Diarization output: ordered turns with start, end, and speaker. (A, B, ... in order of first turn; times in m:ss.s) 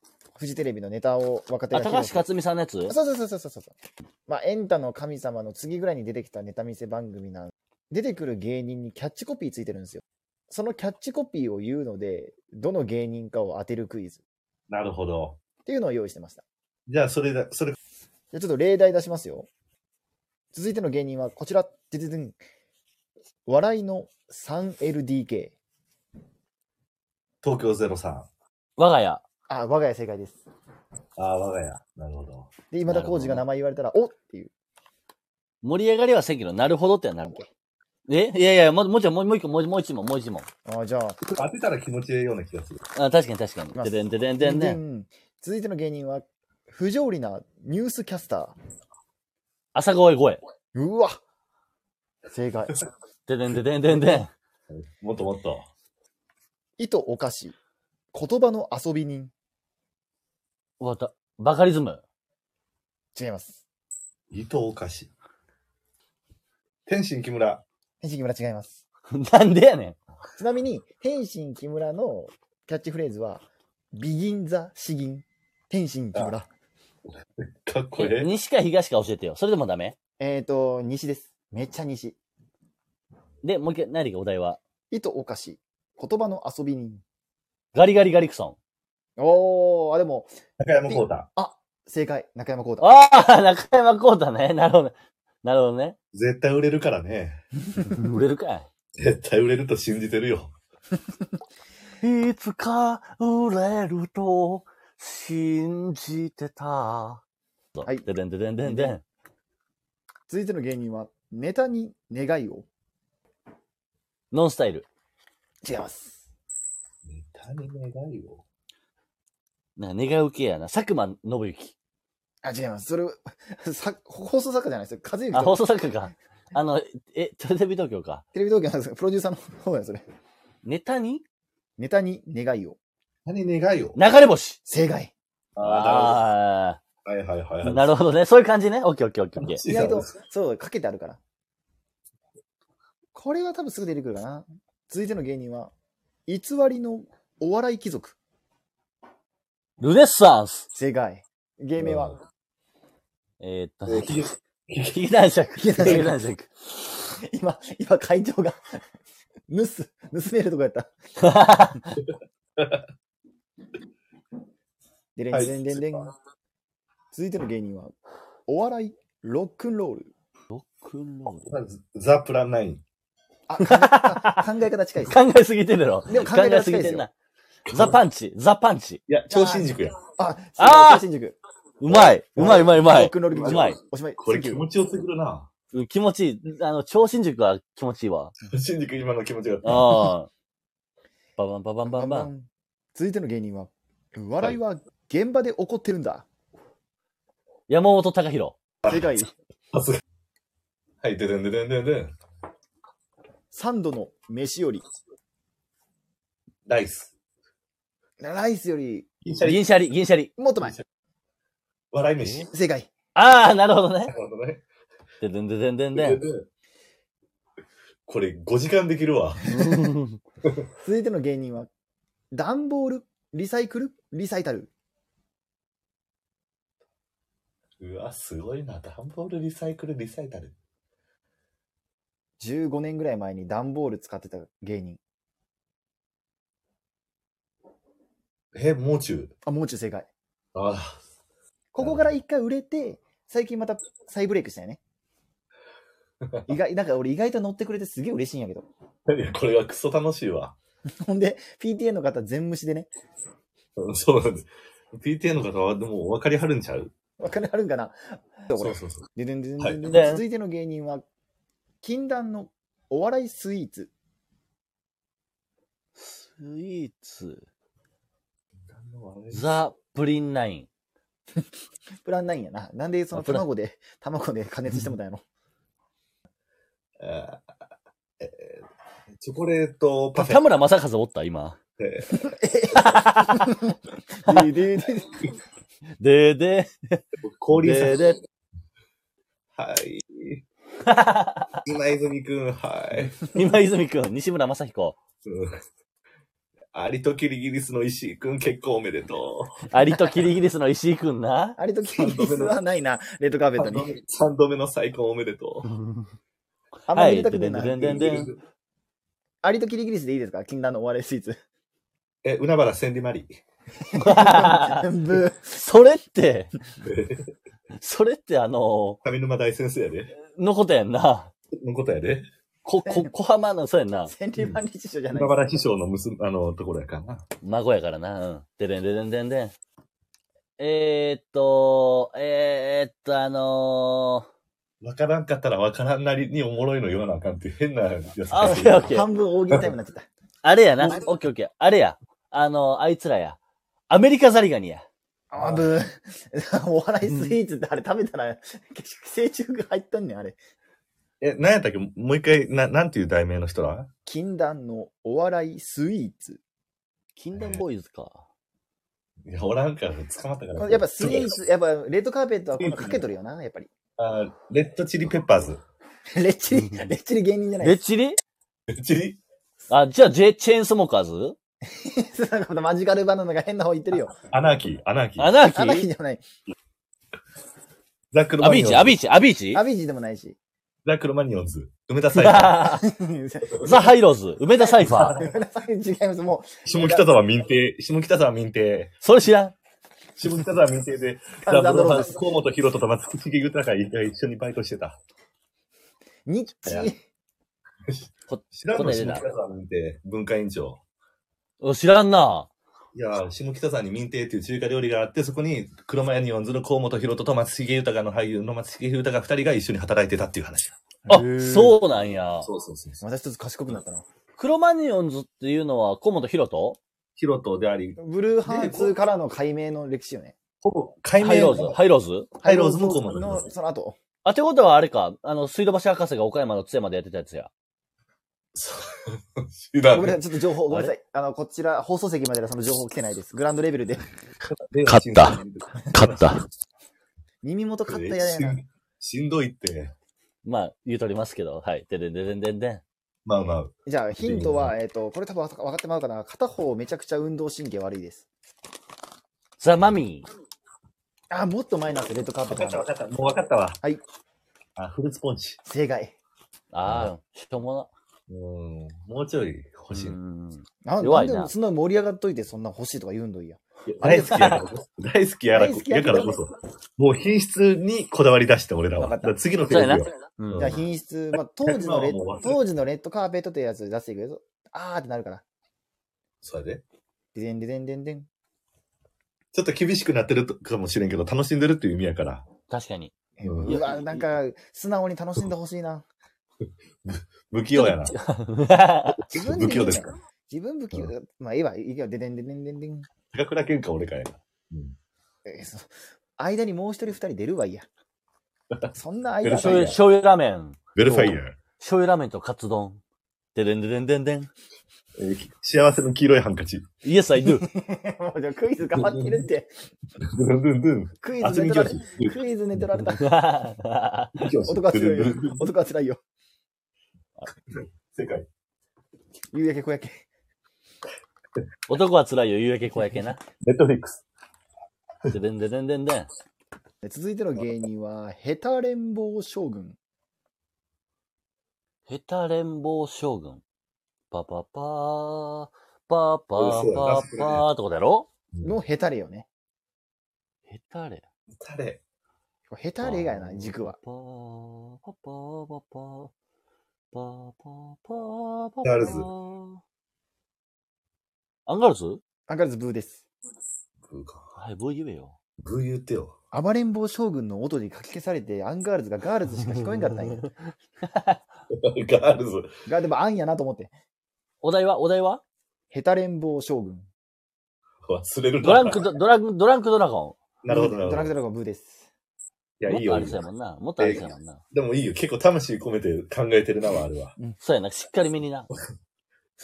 0:00.4-0:02.3 A
0:01.7-0:02.9 B
0:02.9-0:14.2 A
0:14.7-0:15.4 C
0:15.6-0:16.4 A
0:16.9-0:17.8 C
0:18.3-0:19.5 A
0:20.5-0:22.4 A
0:23.4-0:25.6 A
0:27.4-0:28.3 C
0:28.8-0:29.2 B
0:29.5-0:30.4 A
0:31.2-0:32.5 C
0:32.7-0:34.5 A
0:32.8-0:33.4 B
0:35.6-0:37.4 B
0:37.2-0:37.5 A
0:38.1-0:40.5 B
0:40.6-0:41.2 A
0:41.2-0:42.8 C
0:42.9-0:44.8 B
0:43.7-0:48.5 A
0:49.7-0:50.4 B
0:50.7-0:51.2 A
0:52.3-0:52.8 A
0:53.3-0:54.3 B
0:54.7-0:55.7 C
0:56.8-0:57.5 A
0:58.1-0:59.3 A
1:00.8-1:02.0 B
1:03.1-1:03.6 A
1:04.3-1:05.1 C
1:06.8-1:07.6 C
1:08.0-1:08.8 A
1:09.1-1:10.0 B
1:10.4-1:16.5 A
1:17.6-1:18.3 C
1:18.0-1:19.9 B
1:20.2-1:22.2 A
1:23.4-1:24.6 B
1:24.9-1:27.0 A
1:27.7-1:28.6 B
1:29.2-1:30.3 A
1:30.6-1:31.3 C
1:30.9-1:33.0 A
1:32.8-1:36.0 B
1:36.1-1:37.4 C
1:37.8-1:38.7 B
1:39.0-1:40.5 C
1:42.0-1:47.2 B
1:47.8-1:49.0 B
1:48.6-1:49.0 A
1:50.3-1:52.7 A
1:54.3-1:54.9 B
1:55.6-1:56.2 A
1:57.0-1:58.4 C
1:59.8-2:01.7 B
2:02.4-2:05.6 A
2:05.3-2:08.2 B
2:08.3-2:10.0 A
2:10.6-2:11.2 B
2:11.8-2:12.8 A
2:13.2-2:14.0 C
2:14.0-2:14.6 B
2:14.7-2:15.1 A
2:15.6-2:16.2 C
2:15.6-2:16.8 B
2:17.0-2:17.9 C
2:17.6-2:19.6 B
2:19.4-2:20.1 C
2:19.6-2:21.2 A
2:23.1-2:25.7 A
2:26.3-2:28.2 A
2:29.8-2:30.7 B
2:30.7-2:32.2 A
2:31.8-2:32.1 C
2:33.4-2:34.2 B
2:33.8-2:35.0 C
2:34.9-2:37.2 B
2:35.6-2:36.1 A
2:37.3-2:38.7 A
2:39.5-2:40.9 A
2:41.2-2:41.9 B
2:42.6-2:42.8 C
2:45.2-2:46.1 A
2:45.3-2:45.6 C
2:47.1-2:47.9 A
2:48.5-2:50.1 A
2:50.5-2:51.5 B
2:51.4-2:52.8 C
2:53.5-2:55.2 A
2:53.6-2:54.4 B
2:55.0-2:57.1 B
2:56.1-2:57.0 A
2:57.7-2:58.0 C
2:57.7-2:59.0 B
2:59.1-3:00.0 C
2:59.3-3:04.7 A
3:00.6-3:01.0 B
3:01.8-3:03.8 B
3:03.3-3:05.5 C
3:05.7-3:08.3 B
3:08.4-3:10.1 C
3:09.6-3:10.3 B
3:11.4-3:12.3 B
3:11.8-3:16.3 A
3:17.7-3:18.6 B
3:18.8-3:19.2 C
3:18.8-3:19.3 A
3:19.7-3:20.0 C
3:21.0-3:22.1 C
3:23.5-3:24.8 A
3:26.6-3:27.1 C
3:28.2-3:29.1 A
3:29.2-3:29.6 C
3:29.4-3:30.3 B
3:30.4-3:30.8 A
3:31.9-3:32.5 C
3:32.5-3:32.9 A
3:33.1-3:34.1 B
3:34.1-3:34.6 C
3:35.2-3:36.2 B
3:35.9-3:36.4 C
3:38.1-3:39.9 C
3:39.5-3:40.2 B
3:40.8-3:41.7 A
3:42.3-3:44.7 A
3:47.8-3:50.5 C
3:52.4-3:55.0 A
3:58.5-3:59.3 C
3:59.4-4:00.1 A
4:00.5-4:01.0 C
4:01.7-4:04.8 A
4:01.8-4:02.1 C
4:06.3-4:06.5 C
4:06.5-4:08.7 A
4:09.1-4:10.6 C
4:11.0-4:12.9 A
4:13.8-4:16.9 C
4:17.2-4:21.0 A
4:18.6-4:19.1 C
4:19.9-4:20.2 B
4:21.8-4:23.9 A
4:26.0-4:27.4 B
4:28.7-4:29.5 C
4:29.3-4:30.7 B
4:32.0-4:35.2 A
4:33.1-4:33.4 B
4:37.0-4:37.4 C
4:38.2-4:38.6 C
4:39.2-4:40.4 C
4:40.1-4:41.6 B
4:41.8-4:42.3 C
4:42.1-4:45.1 A
4:42.7-4:43.5 B
4:44.3-4:44.5 B
4:46.0-4:47.0 B
4:47.2-4:48.1 C
4:47.5-4:48.2 B
4:49.6-4:50.4 C
4:50.9-4:51.5 B
4:51.6-4:53.2 C
4:53.3-4:55.0 B
4:55.2-4:55.6 C
4:56.7-4:59.7 C
4:59.7-5:01.6 B
5:01.6-5:03.9 A
5:01.9-5:02.6 C
5:03.6-5:05.7 C
5:06.9-5:08.0 A
5:06.9-5:08.3 B
5:07.8-5:08.4 C
5:09.4-5:11.4 A
5:12.2-5:13.3 C
5:13.9-5:15.6 A
5:14.0-5:14.9 B
5:15.5-5:16.5 B
5:16.8-5:17.3 C
5:17.8-5:19.0 B
5:19.0-5:20.2 C
5:20.2-5:21.3 B
5:21.5-5:22.2 C
5:22.6-5:24.1 B
5:22.8-5:23.1 A
5:24.1-5:25.6 A
5:25.1-5:27.2 C
5:27.4-5:29.5 B
5:30.6-5:34.3 B
5:34.8-5:39.0 C
5:38.3-5:39.1 B
5:38.4-5:40.1 A
5:40.4-5:43.4 B
5:43.9-5:44.8 B
5:45.3-5:50.4 A
5:45.4-5:45.7 C
5:47.1-5:47.3 B
5:51.2-5:53.9 C
5:54.0-5:56.4 A
5:57.2-5:58.2 B
5:57.3-5:57.6 C
5:59.2-6:01.4 C
6:00.6-6:03.7 A
6:02.6-6:03.0 C
6:04.0-6:05.6 C
6:06.2-6:07.8 A
6:07.6-6:08.2 B
6:08.7-6:09.2 C
6:09.7-6:11.4 B
6:11.7-6:14.2 A
6:14.2-6:15.3 C
6:15.2-6:15.9 B
6:15.5-6:16.2 A
6:18.1-6:19.0 C
6:18.4-6:19.6 B
6:19.5-6:20.4 A
6:20.8-6:22.6 C
6:22.1-6:22.9 B
6:22.6-6:23.9 A
6:23.6-6:25.2 B
6:24.6-6:27.0 A
6:24.8-6:25.3 C
6:26.6-6:28.9 C
6:29.0-6:29.5 B
6:30.2-6:35.0 C
6:31.4-6:32.2 A
6:36.2-6:37.0 A
6:36.6-6:36.9 C
6:37.9-6:40.8 C
6:38.3-6:39.2 B
6:41.6-6:42.5 B
6:42.9-6:50.8 C
6:51.1-6:51.8 A
6:51.1-6:52.5 B
6:52.4-6:53.0 C
6:53.0-6:54.0 A
6:54.4-6:56.8 B
6:57.2-6:58.9 C
6:58.0-7:00.3 A
7:00.6-7:01.8 C
7:01.2-7:02.3 B
7:02.4-7:04.0 A
7:02.4-7:03.5 C
7:04.2-7:07.5 B
7:08.5-7:10.2 C
7:09.9-7:14.0 A
7:14.6-7:16.4 C
7:14.8-7:15.4 B
7:15.9-7:16.4 B
7:17.4-7:18.6 A
7:17.8-7:19.9 C
7:20.4-7:22.8 B
7:23.2-7:24.7 C
7:23.8-7:28.2 A
7:29.6-7:30.3 B
7:31.3-7:32.9 A
7:32.5-7:33.8 C
7:34.8-7:35.6 C
7:35.6-7:36.1 A
7:36.7-7:37.9 B
7:36.8-7:37.1 C
7:38.3-7:40.2 C
7:39.9-7:41.5 B
7:40.8-7:44.6 A
7:43.8-7:50.8 C
7:44.3-7:44.6 B
7:45.5-7:46.4 A
7:49.0-7:49.4 A
7:49.7-7:50.8 B
7:50.6-7:55.4 A
7:51.3-7:52.6 C
7:56.4-7:56.8 C
7:57.3-7:58.3 A
7:59.5-8:02.5 C
8:02.7-8:03.1 B
8:03.4-8:06.0 A
8:03.4-8:03.8 C
8:03.6-8:04.3 B
8:07.0-8:08.2 C
8:07.7-8:09.2 B
8:09.1-8:10.1 C
8:09.3-8:13.1 A
8:13.3-8:14.9 C
8:15.4-8:17.8 A
8:18.9-8:20.0 A
8:19.4-8:20.0 C
8:19.6-8:21.1 B
8:21.0-8:21.6 C
8:21.0-8:21.3 A
8:21.8-8:23.0 B
8:23.5-8:24.5 B
8:25.2-8:26.9 C
8:27.0-8:27.7 B
8:27.4-8:29.7 A
8:28.9-8:29.5 C
8:30.2-8:32.4 C
8:31.2-8:33.2 A
8:33.1-8:34.5 B
8:34.4-8:35.7 C
8:34.6-8:36.2 A
8:38.1-8:38.5 C
8:39.5-8:40.2 A
8:41.9-8:43.4 B
8:43.6-8:44.2 C
8:45.3-8:46.3 B
8:47.0-8:50.0 A
8:52.1-8:53.6 B
8:54.3-8:58.3 B
8:56.6-8:57.6 C
8:58.6-8:59.5 A
9:00.7-9:01.2 B
9:01.5-9:02.0 C
9:02.7-9:04.0 A
9:03.0-9:06.3 B
9:07.1-9:09.8 B
9:08.8-9:09.3 C
9:11.6-9:12.2 B
9:12.5-9:13.2 A
9:14.1-9:14.5 C
9:14.5-9:15.4 B
9:15.6-9:16.3 C
9:16.5-9:20.4 A
9:19.7-9:20.5 B
9:21.0-9:21.4 B
9:21.7-9:22.7 C
9:22.8-9:23.9 A
9:24.6-9:25.4 B
9:25.9-9:27.1 A
9:28.1-9:29.1 C
9:28.6-9:30.4 B
9:30.6-9:31.3 C
9:30.7-9:32.1 A
9:32.8-9:33.4 C
9:32.9-9:34.6 B
9:34.0-9:37.4 C
9:37.6-9:38.7 B